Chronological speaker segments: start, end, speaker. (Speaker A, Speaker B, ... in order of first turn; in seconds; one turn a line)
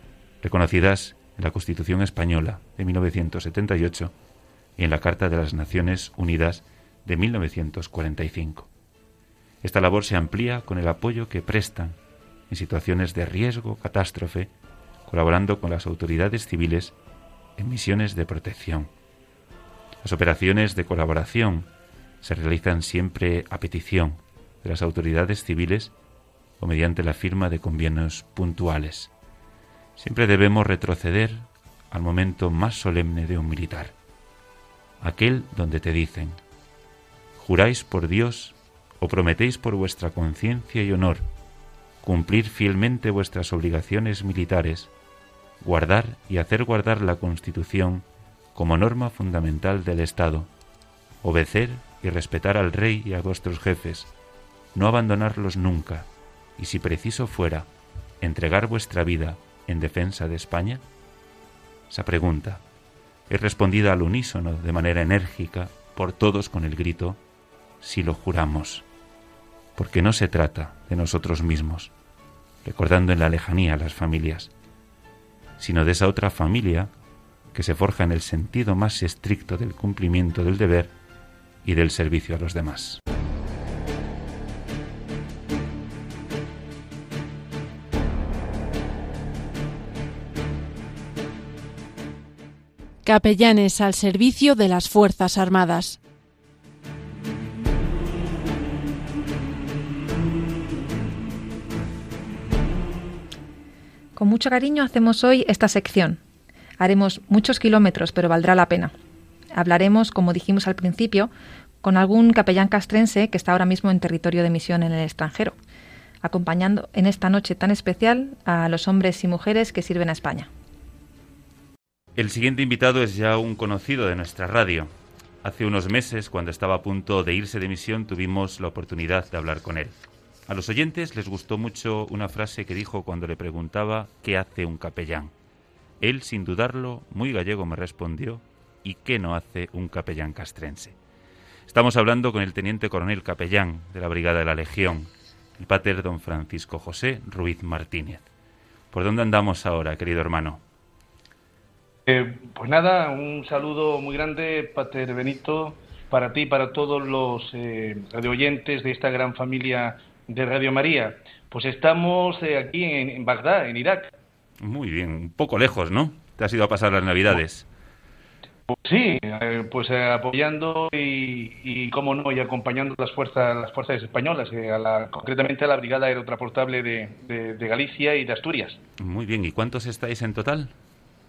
Speaker A: 0.4-4.1
Speaker A: 4.8-8.7
Speaker A: 9.6-12.0
Speaker A: 12.5-14.5
Speaker A: 15.1-17.0
Speaker A: 17.6-18.9
Speaker A: 20.0-21.7
Speaker A: 22.2-25.9
Speaker A: 26.6-29.1
Speaker A: 30.0-33.9
Speaker A: 35.0-36.4
Speaker A: 37.4-41.2
Speaker A: 42.0-44.9
Speaker A: 45.6-50.5
Speaker A: 51.2-54.1
Speaker A: 54.7-57.7
Speaker A: 58.2-60.8
Speaker A: 61.9-62.6
Speaker A: 63.3-67.2
Speaker A: 67.8-68.8
Speaker A: 69.8-71.9
Speaker A: 72.6-74.5
Speaker A: 75.6-76.9
Speaker A: 77.5-80.9
Speaker A: 81.6-83.0
Speaker B: 93.0-96.0
Speaker C: 104.2-106.2
Speaker C: 106.8-108.9
Speaker C: 109.6-111.3
Speaker C: 111.8-115.5
Speaker C: 116.2-120.5
Speaker A: 122.2-124.9
Speaker A: 125.4-135.3
Speaker A: 136.0-141.0
Speaker A: 141.7-148.3
Speaker A: 148.9-150.6
Speaker D: 152.1-164.1
Speaker A: 164.6-167.7
Speaker D: 168.7-178.8
Speaker A: 179.0-180.7